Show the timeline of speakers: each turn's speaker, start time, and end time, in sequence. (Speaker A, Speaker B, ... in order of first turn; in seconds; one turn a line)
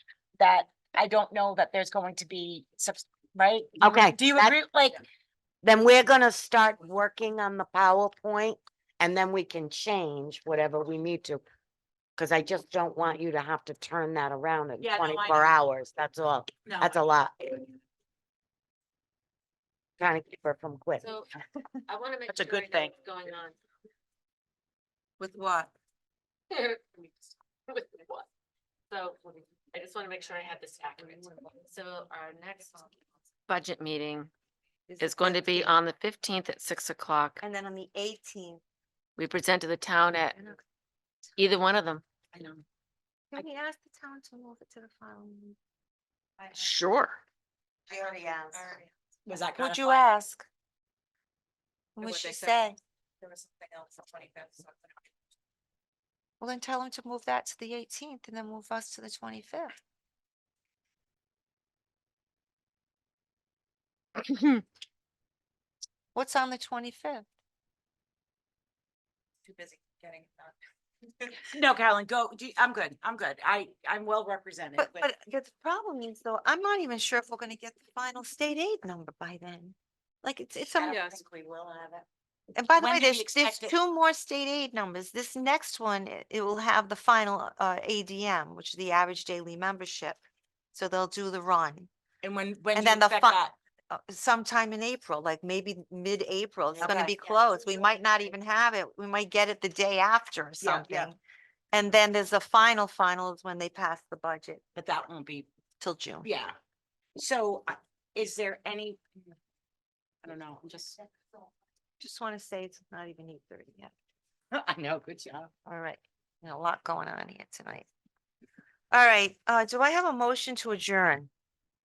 Speaker A: 0.4-5.0
Speaker B: 3.8-4.5
Speaker B: 5.6-11.4
Speaker B: 12.2-17.6
Speaker A: 14.8-15.6
Speaker A: 16.6-17.1
Speaker B: 20.0-21.1
Speaker C: 21.0-21.3
Speaker C: 21.9-23.6
Speaker A: 22.3-22.9
Speaker D: 25.2-25.7
Speaker C: 26.5-27.1
Speaker C: 27.7-28.3
Speaker C: 28.9-34.3
Speaker D: 34.9-35.8
Speaker C: 35.0-37.4
Speaker D: 37.4-38.6
Speaker C: 39.2-40.5
Speaker C: 41.4-42.0
Speaker A: 42.3-42.6
Speaker D: 43.3-45.6
Speaker D: 46.4-46.7
Speaker C: 46.6-47.2
Speaker D: 47.9-48.8
Speaker E: 48.5-48.9
Speaker A: 49.3-50.0
Speaker D: 49.5-50.5
Speaker D: 52.0-52.8
Speaker E: 52.0-52.6
Speaker E: 53.2-54.9
Speaker D: 56.4-59.7
Speaker C: 64.2-64.6
Speaker D: 66.1-67.2
Speaker E: 69.4-70.5
Speaker A: 71.5-75.1
Speaker D: 74.8-81.0
Speaker A: 80.7-82.0
Speaker D: 82.5-90.2
Speaker A: 82.7-83.7
Speaker D: 90.7-91.9
Speaker A: 92.2-93.5
Speaker D: 92.7-93.4
Speaker D: 93.9-101.2
Speaker A: 96.8-97.1
Speaker A: 100.6-101.1
Speaker D: 101.7-104.6
Speaker A: 104.7-105.5
Speaker D: 105.8-106.3
Speaker A: 106.2-106.5
Speaker A: 107.2-109.0
Speaker A: 110.2-111.0
Speaker D: 112.0-113.9
Speaker A: 114.5-115.5
Speaker D: 115.7-117.9
Speaker D: 118.9-121.3